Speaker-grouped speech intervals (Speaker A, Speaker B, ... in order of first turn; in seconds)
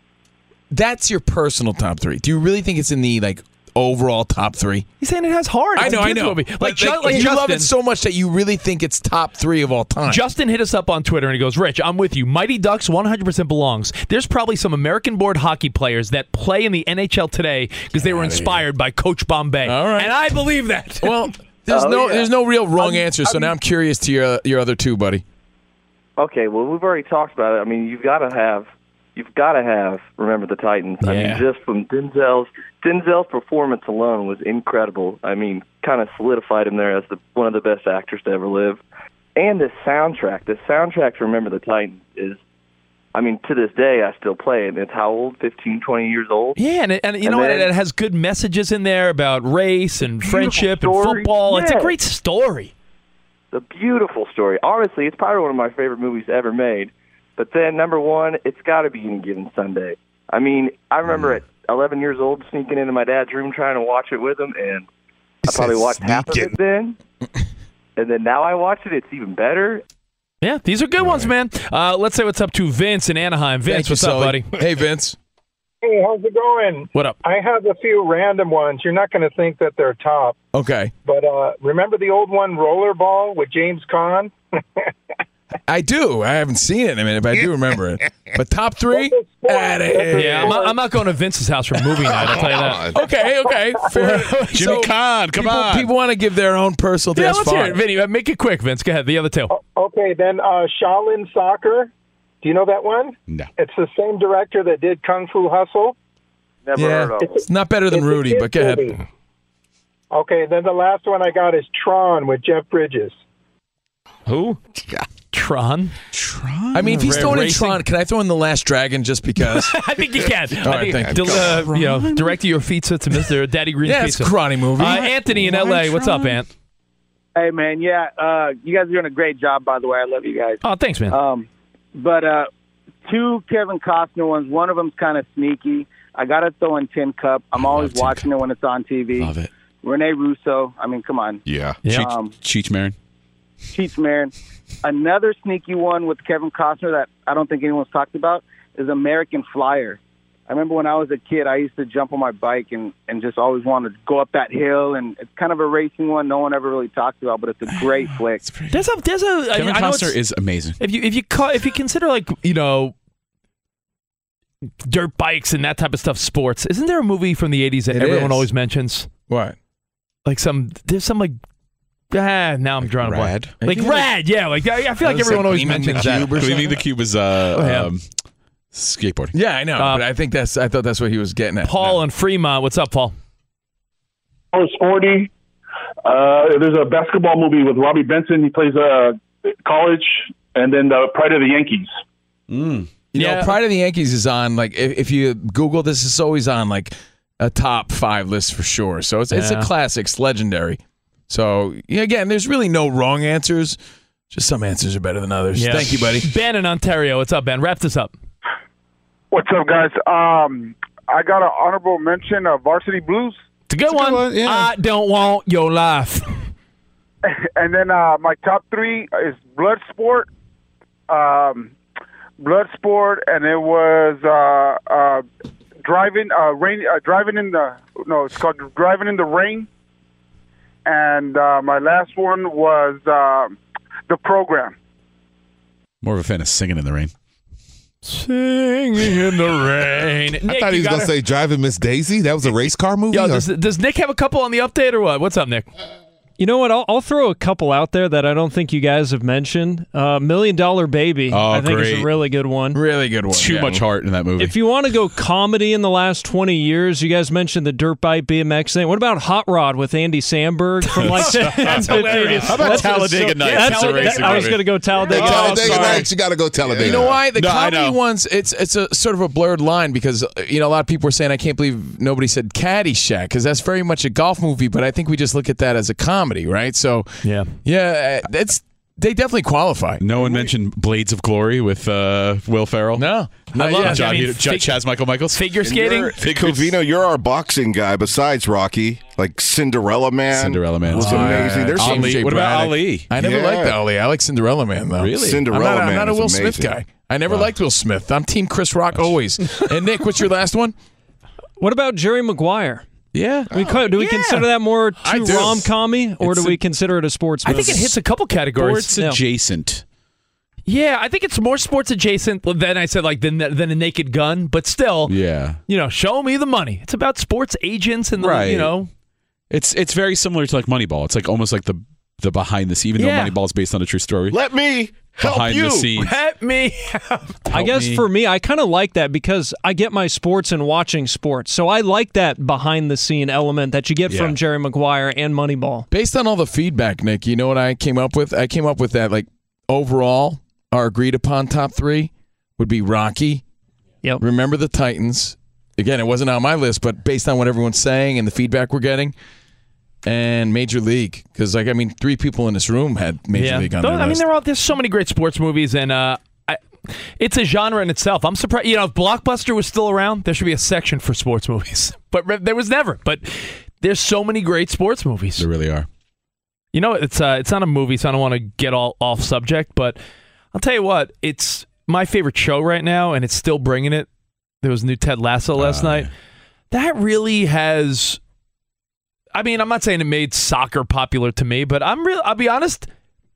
Speaker A: 0.7-4.8, 5.8-10.2, 19.6-20.3, 21.0-25.2, 73.7-75.2, 80.5-80.9, 85.7-90.6, 92.9-97.8, 106.8-109.0, 116.7-119.8, 120.6-121.7, 123.8-125.5, 169.3-169.6, 173.6-174.1, 175.0-176.8, 179.3-181.7, 193.1-203.8, 204.3-206.3, 252.7-253.8, 266.8-280.0, 282.9-284.3, 290.9-300.7, 305.0-305.7, 335.9-343.4, 344.2-349.1, 350.0-354.2
Speaker B: 5.0-7.7, 10.1-21.3, 31.0-31.4, 46.5-52.7, 70.4-74.5, 90.1-92.9, 93.9-94.9, 97.1-99.5, 115.3-115.9, 117.0-117.8, 119.5-126.5, 130.6-131.2, 158.7-160.2, 160.8-162.9, 164.8-169.1, 170.2-171.4, 172.1-176.5, 177.5-177.9, 179.8-180.0, 181.6-183.1, 193.1-193.5, 199.3-199.7, 205.6-208.1, 213.7-216.5, 238.0-241.1, 243.1-245.7, 261.6-264.6, 277.2-277.5, 283.5-286.1, 304.0-304.4, 307.4-308.9, 310.6-315.1, 315.7-318.9, 323.0-323.4, 325.9-327.4, 353.3-365.4, 366.7-370.0, 370.5-374.1, 374.6-376.1, 376.7-378.2, 379.3-382.9
Speaker C: 21.7-22.9, 26.2-38.8, 39.4-42.4, 43.1-46.6, 47.2-47.7, 51.6-51.9, 53.5-64.9, 65.5-67.0, 68.0-69.8
Speaker D: 61.0-61.5, 94.5-95.9, 116.1-117.3, 137.6-138.3, 139.2-139.5, 141.8-142.9, 157.7-158.8, 159.5-160.8, 168.0-168.4, 172.8-173.5, 175.9-178.1, 178.7-179.3, 192.5-192.9, 236.0-237.1, 251.3-252.1, 253.3-254.7, 260.9-266.1, 266.7-268.0, 280.0-283.1, 283.6-286.8, 290.3-293.1, 295.0-295.4, 298.9-299.6, 303.1-303.6, 305.3-305.5, 307.5-307.8, 308.6-309.8, 315.1-315.6, 318.2-318.7, 319.5-324.4, 325.1-326.1, 327.5-328.0, 334.1-334.4, 365.4-365.9, 375.5-376.1
Speaker E: 65.6-66.4, 240.4-243.5, 265.1-267.1
Speaker F: 75.8-80.4, 81.0-84.3, 88.9-90.8, 99.5-101.9, 102.4-106.0, 107.1-109.0, 110.1-113.2
Speaker G: 92.6-92.9, 141.5-141.8, 285.6-292.3, 293.1-293.8, 295.1-296.7, 324.3-325.9
Speaker H: 106.7-107.0, 127.3-132.5, 133.0-142.3, 143.7-158.4
Speaker I: 184.5-185.3, 186.0-191.9
Speaker J: 209.3-213.4, 217.3-220.3, 221.1-221.7, 222.4-225.2, 225.8-229.7, 230.8-233.6, 234.1-234.8
Speaker K: 246.4-252.8, 254.4-266.1, 301.6-302.9, 303.5-307.9, 308.9-309.2, 327.5-335.9